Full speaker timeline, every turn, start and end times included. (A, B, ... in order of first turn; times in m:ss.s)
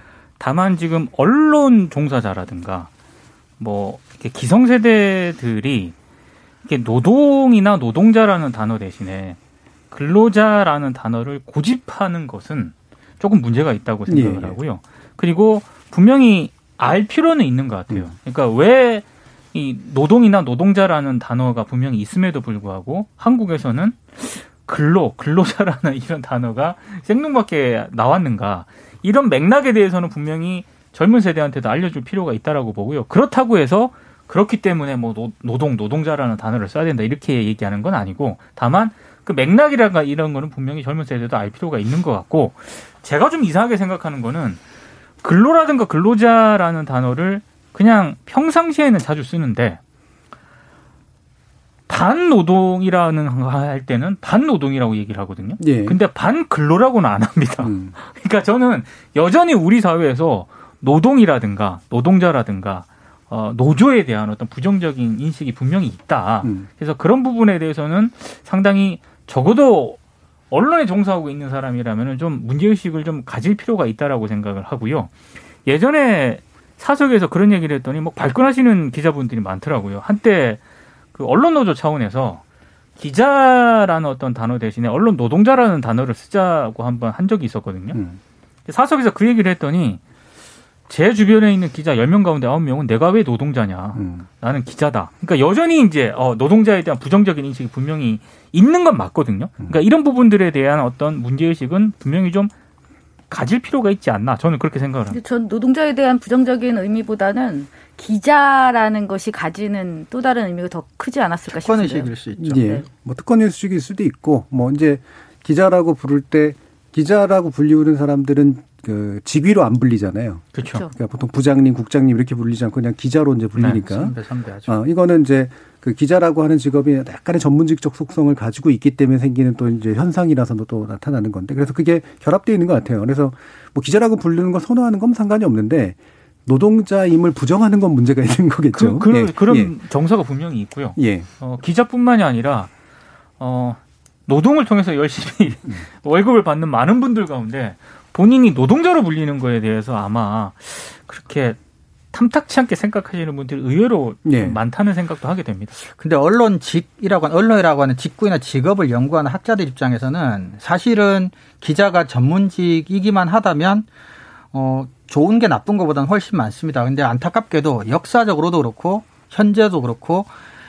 0:00.4-0:02.9 A
0:03.6-0:05.9 A
0:06.6-0:09.4 A
0:09.9-0:44.6 A
0:14.1-0:14.6 B
0:45.2-0:49.8 A
0:51.9-1:10.0 A
0:55.6-0:56.0 B
0:57.6-0:57.9 B
1:10.5-1:15.1 A
1:15.7-1:20.6 A
1:21.1-1:22.4 A
1:23.0-1:28.0 A
1:27.9-1:28.2 B
1:28.7-1:30.0 A
1:30.9-1:42.5 A
1:34.0-1:34.2 B
1:43.3-1:45.2 A
1:45.1-1:52.1 C
1:51.5-1:52.8 D
1:52.4-2:19.7 B
2:00.6-2:00.8 A
2:00.6-2:00.9 C
2:03.7-2:04.8 D
2:18.7-2:22.7 A
2:21.0-2:21.3 B
2:23.4-2:31.6 A
2:32.1-2:35.8 A
2:34.2-2:34.6 B
2:35.9-2:43.9 D
2:44.5-2:50.3 D